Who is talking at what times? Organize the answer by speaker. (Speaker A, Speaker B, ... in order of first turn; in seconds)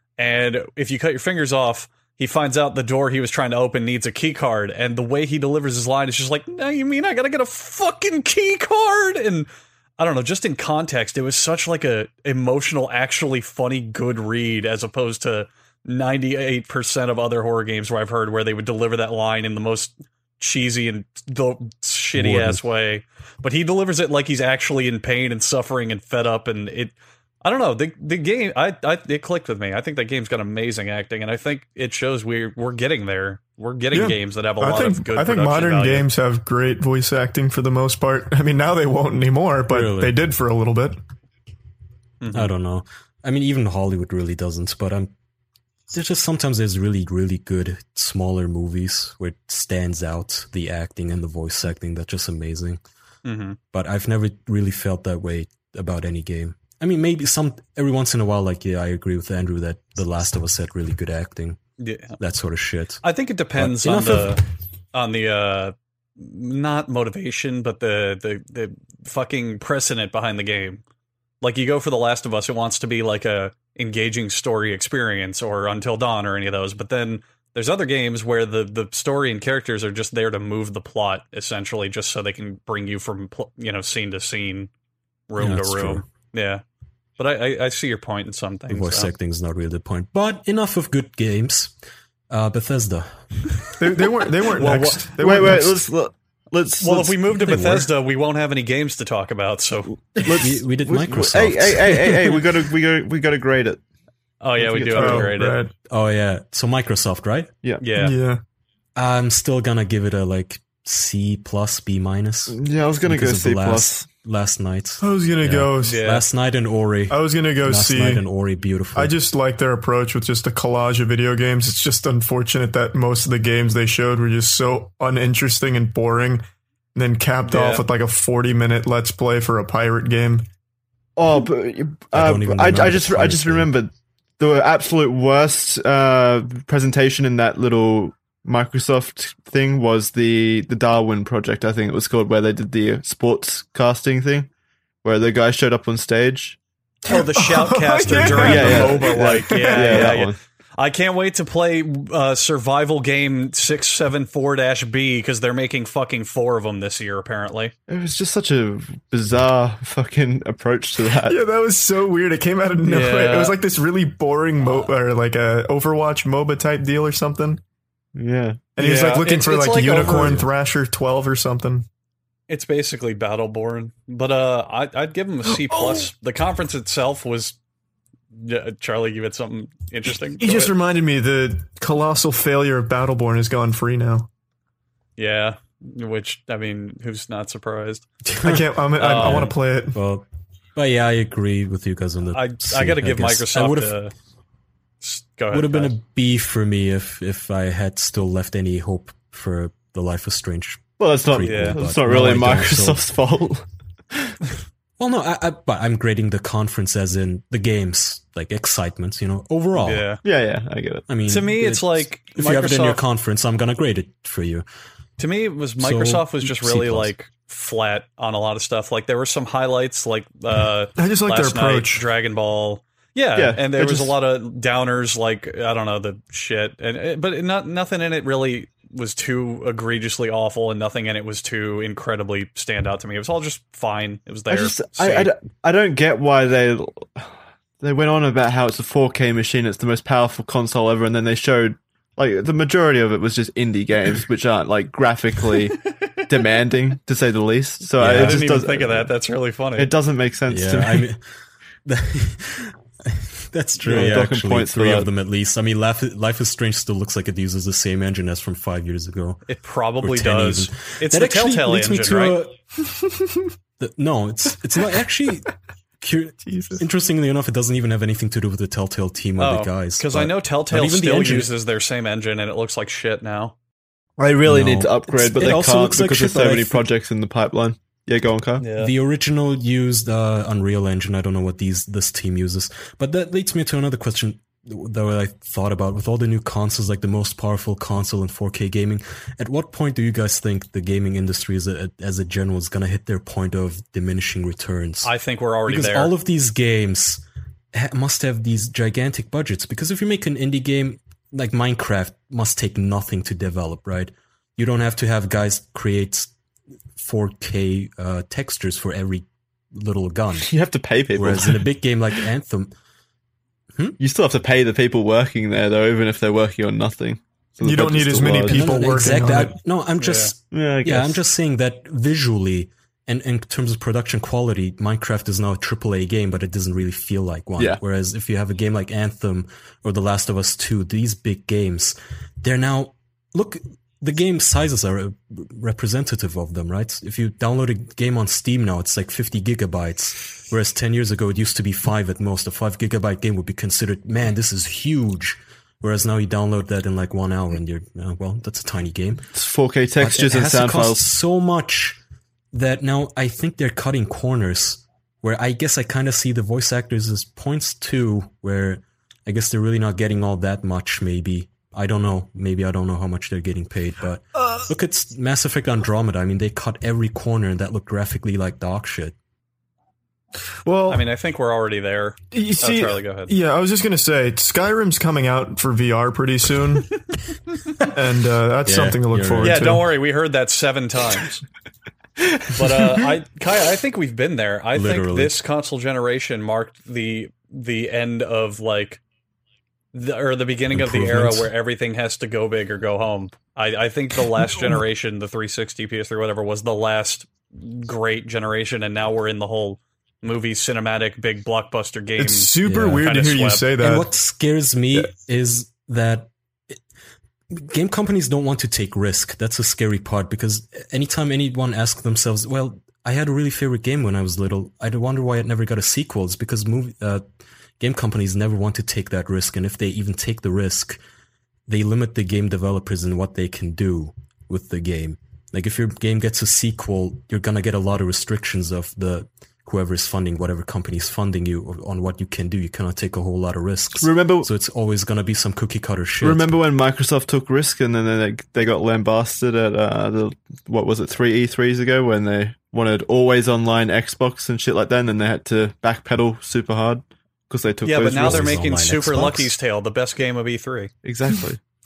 Speaker A: 0.2-36.1, 42.2-42.5, 53.2-53.6, 61.8-62.2, 63.0-70.8, 71.4-84.7, 85.3-86.6, 87.2-89.1, 94.5-95.0, 96.8-99.9, 104.4-105.6, 107.8-108.1, 115.8-116.2, 127.5-127.8, 147.1-157.7, 162.8-163.5, 168.8-170.5, 172.5-177.6, 178.3-180.7, 185.2-188.1, 189.0-189.5, 192.3-194.1, 195.0-195.9, 201.4-201.8, 209.8-210.2, 211.3-213.0, 215.2-235.3, 248.0-249.9, 259.5-262.4, 269.4-273.5, 278.6-278.9, 295.0-296.1, 320.0-320.3, 370.9-373.3, 379.4-381.4, 382.5-389.0, 389.9-403.7, 447.8-450.9
Speaker B: 22.1-22.6, 39.7-40.1, 42.3-45.1, 45.9-52.8, 53.7-61.6, 62.2-63.0, 63.5-64.4, 85.4-86.0, 88.7-91.7, 92.3-93.1, 97.5-97.9, 100.4-102.3, 105.9-107.5, 109.0-119.1, 132.1-133.7, 188.2-194.0, 195.5-203.0, 205.0-210.1, 211.1-214.6, 215.8-217.1, 248.0-248.4, 250.5-251.2, 251.8-259.4, 260.0-262.6, 263.8-271.5, 274.4-276.8, 278.8-295.1, 295.6-306.3, 306.9-310.5, 311.1-312.7, 318.4-349.3, 350.0-352.0, 352.5-369.1, 378.6-379.8, 384.7-385.4, 390.7-391.5, 402.6-403.1, 403.8-406.8, 407.5-417.2, 417.8-421.0, 421.7-436.5, 448.1-449.5
Speaker C: 33.9-41.0, 93.8-95.8, 104.9-105.7, 107.9-108.4, 115.0-116.0, 117.1-118.2, 118.9-126.4, 126.9-130.4, 147.1-150.2, 161.2-167.6, 168.8-171.8, 175.4-176.1, 180.4-184.3, 188.4-190.0, 221.0-222.0, 262.9-263.4, 266.4-266.8, 317.6-319.6, 370.6-371.1, 372.3-377.0, 377.8-379.9, 402.2-404.1
Speaker D: 95.2-97.3, 99.9-103.8, 104.6-105.3, 112.5-114.1, 131.2-144.5, 145.0-146.6, 148.1-150.3, 157.9-161.4, 168.1-168.6, 201.0-204.3, 210.2-211.0, 223.3-224.1, 234.5-249.1, 249.8-251.1, 253.8-255.1, 274.2-278.6, 310.4-311.6, 314.0-318.7, 320.5-321.2, 349.3-351.1, 434.0-434.5, 436.2-448.5, 451.0-451.6